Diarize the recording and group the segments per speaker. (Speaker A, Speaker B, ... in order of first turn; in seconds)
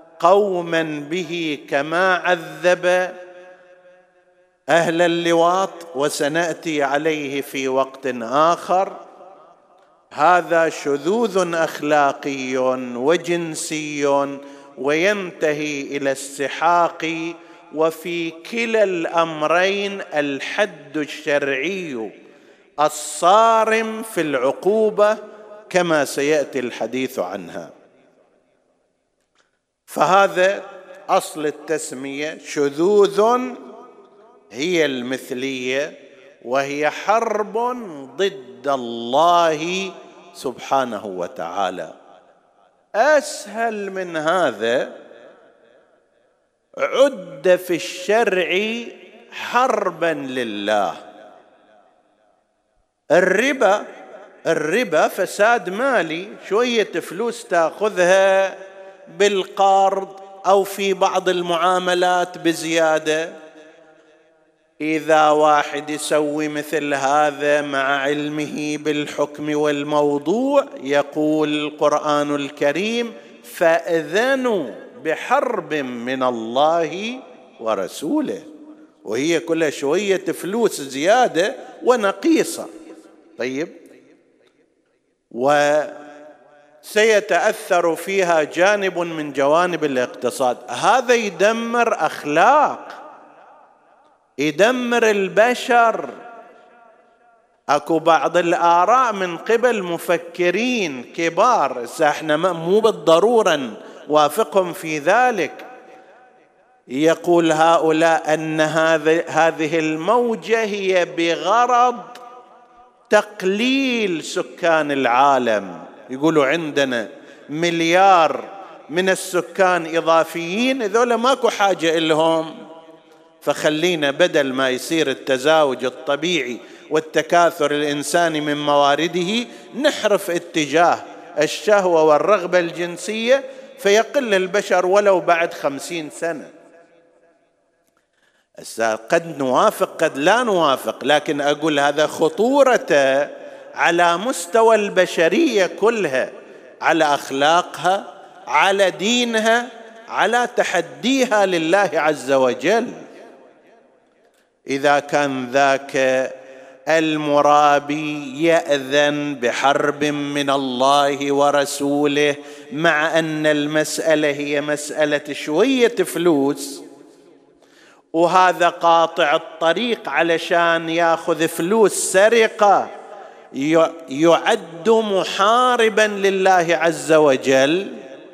Speaker A: 0.2-3.1, 4.7-9.0, 10.1-22.1, 22.8-25.2, 25.7-27.7, 29.9-33.6, 34.5-35.9, 36.4-41.9, 43.0-44.9, 46.8-51.0, 53.1-53.9, 54.5-58.6, 59.1-63.3, 64.8-78.5, 79.0-82.7, 83.4-83.7, 85.3-86.0, 86.8-93.0, 94.4-96.1, 97.7-105.7, 106.9-112.2, 113.1-122.5, 123.4-136.5, 138.6-146.3, 146.8-153.0, 154.7-156.3, 156.9-166.8, 168.2-172.9, 173.6-177.9